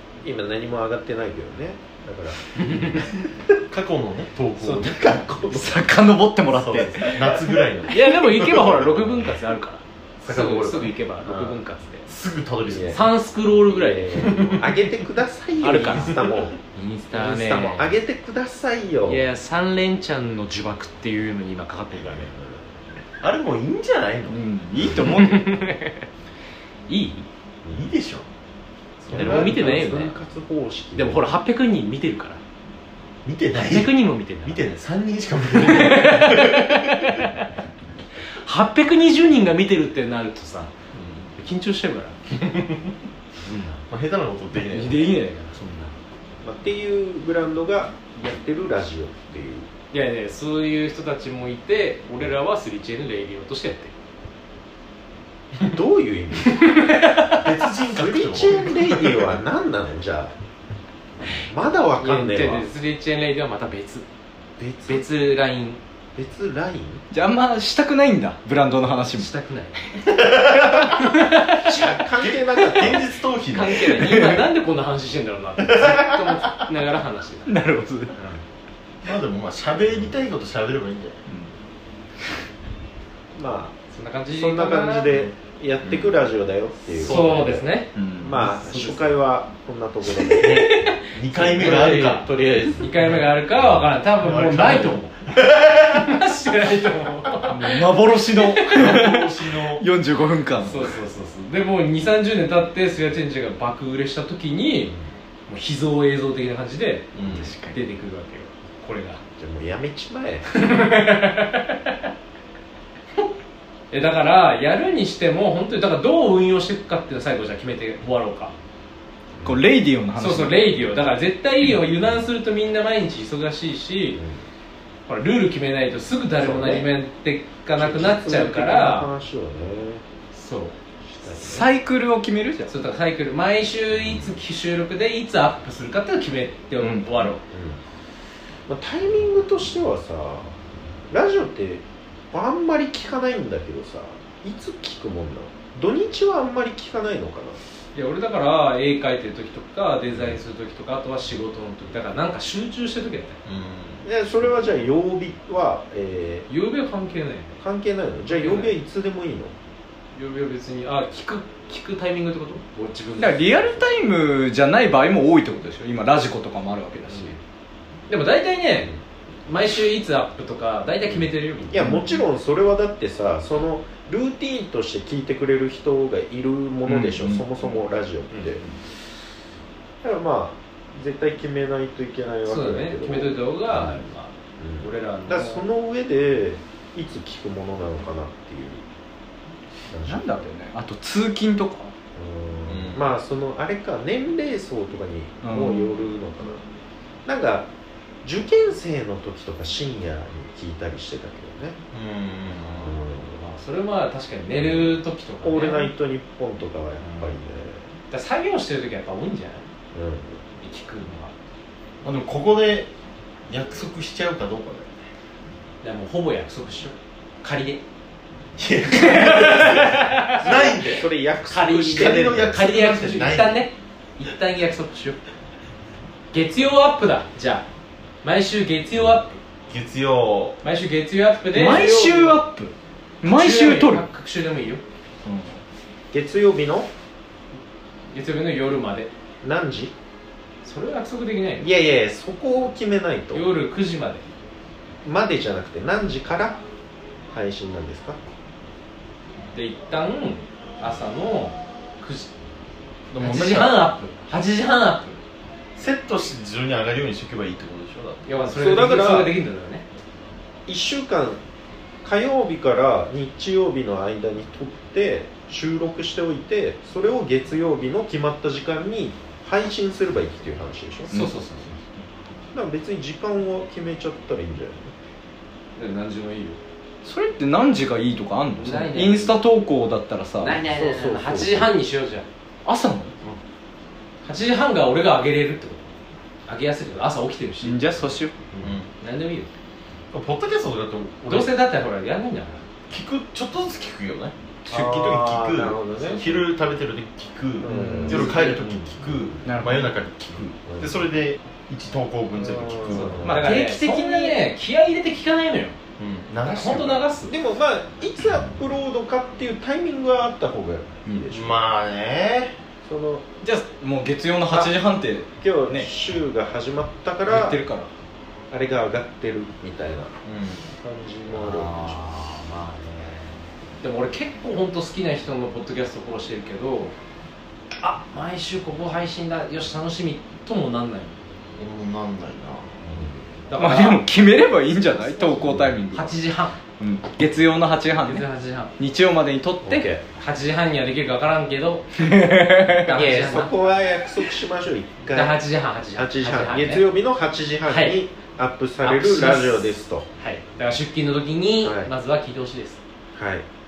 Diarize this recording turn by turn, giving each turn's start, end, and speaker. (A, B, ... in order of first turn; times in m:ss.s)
0:00.2-0:03.4 A
0:02.6-0:03.0 B
0:03.7-0:05.2 C
0:04.6-0:05.8 A
0:05.5-0:07.4 D
0:06.5-0:09.1 C
0:06.8-0:07.2 B
0:07.9-0:12.1 B
0:10.3-0:10.9 C
0:10.3-0:11.6 A
0:12.1-0:13.1 C
0:12.7-0:16.6 A
0:12.9-0:14.8 B
0:14.2-0:14.6 C
0:15.6-0:17.9 B
0:15.8-0:16.5 C
0:17.1-0:19.2 A
0:19.0-0:22.3 B
0:21.9-0:22.7 A
0:23.2-0:24.4 C
0:24.3-0:25.6 D
0:24.7-0:25.1 A
0:25.0-0:26.0 B
0:26.9-0:27.3 B
0:27.6-0:27.9 A
0:27.7-0:28.3 C
0:29.0-0:30.1 B
0:29.1-0:31.3 A
0:29.1-0:29.5 C
0:31.0-0:32.4 B
0:33.2-0:37.2 C
0:33.5-0:34.6 B
0:35.5-0:37.5 B
0:38.2-0:40.7 B
0:40.9-0:41.3 C
0:41.4-0:42.2 B
0:43.4-0:43.9 B
0:43.9-0:45.2 C
0:44.7-0:46.0 B
0:46.4-0:49.7 A
0:49.9-0:53.9 B
0:55.6-0:56.7 A
0:56.5-0:57.5 B
0:57.3-0:59.3 C
0:57.9-1:00.3 A
1:01.4-1:02.7 A
1:02.0-1:04.1 B
1:04.6-1:05.1 A
1:04.9-1:05.8 B
1:06.2-1:07.0 A
1:07.1-1:09.3 D
1:09.1-1:09.9 B
1:10.2-1:11.4 D
1:11.0-1:12.0 B
1:11.6-1:13.0 A
1:12.2-1:14.2 C
1:12.5-1:12.9 B
1:13.5-1:17.6 B
1:13.9-1:14.4 D
1:15.7-1:16.2 C
1:17.5-1:18.2 D
1:19.0-1:21.2 C
1:23.4-1:23.8 A
1:23.9-1:25.3 B
1:24.3-1:27.7 A
1:25.8-1:26.2 C
1:27.0-1:29.2 B
1:27.0-1:27.6 C
1:27.9-1:28.5 D
1:28.2-1:30.6 A
1:30.2-1:39.1 B
1:30.4-1:32.3 C
1:31.4-1:32.9 A
1:33.6-1:36.1 C
1:37.5-1:41.0 D
1:38.6-1:39.8 C
1:40.6-1:45.0 B
1:45.5-1:49.2 B
1:47.1-1:47.5 C
1:47.3-1:47.8 D
1:49.4-1:50.5 A
1:50.5-1:52.0 B
1:53.9-1:58.6 B
1:59.4-2:00.8 D
2:00.2-2:04.2 B
2:04.2-2:04.4 A
2:05.1-2:09.1 B
2:06.4-2:06.9 A
2:07.8-2:10.0 A
2:10.3-2:11.7 B
2:11.4-2:12.7 D
2:12.7-2:17.4 B
2:16.8-2:17.3 D
2:17.5-2:17.8 A
2:18.7-2:20.6 A
2:21.1-2:27.6 A
2:28.0-2:33.4 B
2:33.4-2:34.0 C
2:34.0-2:36.5 A
2:36.5-2:37.6 B
2:37.6-2:39.6 A
2:38.3-2:38.8 B
2:40.2-2:43.9 B
2:43.2-2:47.4 D
2:47.1-2:47.4 B
2:48.1-2:48.9 B
2:49.4-2:51.9 B
2:51.7-2:58.6 A
2:51.8-2:52.2 D
2:56.9-2:57.4 D
2:58.3-2:58.7 B
3:00.0-3:04.1 A
3:02.5-3:05.7 B
3:04.6-3:08.9 A
3:09.9-3:10.5 A
3:10.0-3:11.9 D
3:12.2-3:16.6 A
3:12.7-3:13.0 C
3:15.4-3:16.1 D
3:17.3-3:17.7 A
3:18.2-3:21.8 A
3:21.9-3:23.0 C
3:22.8-3:23.5 A
3:23.3-3:25.9 B
3:25.4-3:27.9 A
3:27.0-3:27.4 B
3:28.1-3:29.7 B
3:29.9-3:30.4 A
3:30.6-3:31.3 B
3:32.0-3:32.9 C
3:33.5-3:35.0 C
3:35.8-3:37.8 B
3:38.6-3:41.1 C
3:38.9-3:45.2 B
3:40.5-3:42.6 A
3:41.9-3:43.6 C
3:46.3-3:47.7 B
3:48.2-3:49.4 B
3:49.7-3:50.6 C
3:50.6-3:52.4 B
3:51.5-3:54.0 D
3:53.3-3:54.8 B
3:55.2-3:55.6 D
3:56.1-3:56.9 A
3:58.1-3:59.1 B
3:59.4-3:59.9 A
4:00.6-4:01.7 B
4:01.6-4:03.5 A
4:03.3-4:04.2 B
4:05.0-4:06.6 A
4:07.3-4:08.2 A
4:09.5-4:12.3 B
4:13.1-4:13.8 C
4:13.2-4:15.2 B
4:15.8-4:18.3 C
4:18.3-4:19.8 B
4:18.5-4:19.3 A
4:20.7-4:21.4 A
4:22.0-4:31.1 A
4:31.1-4:31.8 B
4:31.1-4:31.8 D
4:32.5-4:34.9 A
4:35.8-4:36.6 B
4:37.0-4:40.6 D
4:38.6-4:39.4 B
4:40.4-4:42.3 B
4:40.6-4:41.8 A
4:42.6-4:43.2 D
4:44.2-4:47.8 B
4:47.6-4:48.4 D
4:48.6-4:48.9 C
4:49.0-4:49.5 B
4:50.1-4:51.5 C
4:51.3-4:52.6 B
4:52.9-5:03.3 C
4:54.7-4:55.2 D
4:54.7-4:56.5 A
4:56.0-4:56.2 B
4:57.6-4:59.4 A
4:58.0-4:58.6 D
4:58.1-4:58.4 B
4:59.4-4:59.9 D
5:00.7-5:01.0 A
5:02.4-5:03.4 A
5:02.9-5:05.8 B
5:03.2-5:04.4 D
5:06.0-5:07.0 C
5:06.4-5:07.3 B
5:07.3-5:11.6 A
5:11.3-5:12.6 C
5:12.8-5:13.2 A
5:13.4-5:15.9 D
5:15.4-5:17.6 A
5:17.3-5:17.9 D
5:18.5-5:20.1 A
5:20.2-5:20.7 C
5:20.8-5:22.0 A
5:21.4-5:27.0 B
5:27.8-5:31.2 B
5:31.6-5:33.1 C
5:32.9-5:33.2 A
5:33.5-5:34.1 B
5:33.6-5:36.2 D
5:35.0-5:36.6 B
5:36.8-5:39.9 D
5:38.0-5:38.7 B
5:39.6-5:40.0 A
5:40.1-5:42.1 B
5:42.0-5:43.4 D
5:42.7-5:43.5 B
5:42.9-5:45.4 A
5:45.1-5:46.8 B
5:45.9-5:50.1 A
5:47.7-5:48.0 B
5:48.8-5:52.8 B
5:51.6-5:51.9 A
5:53.2-5:53.5 A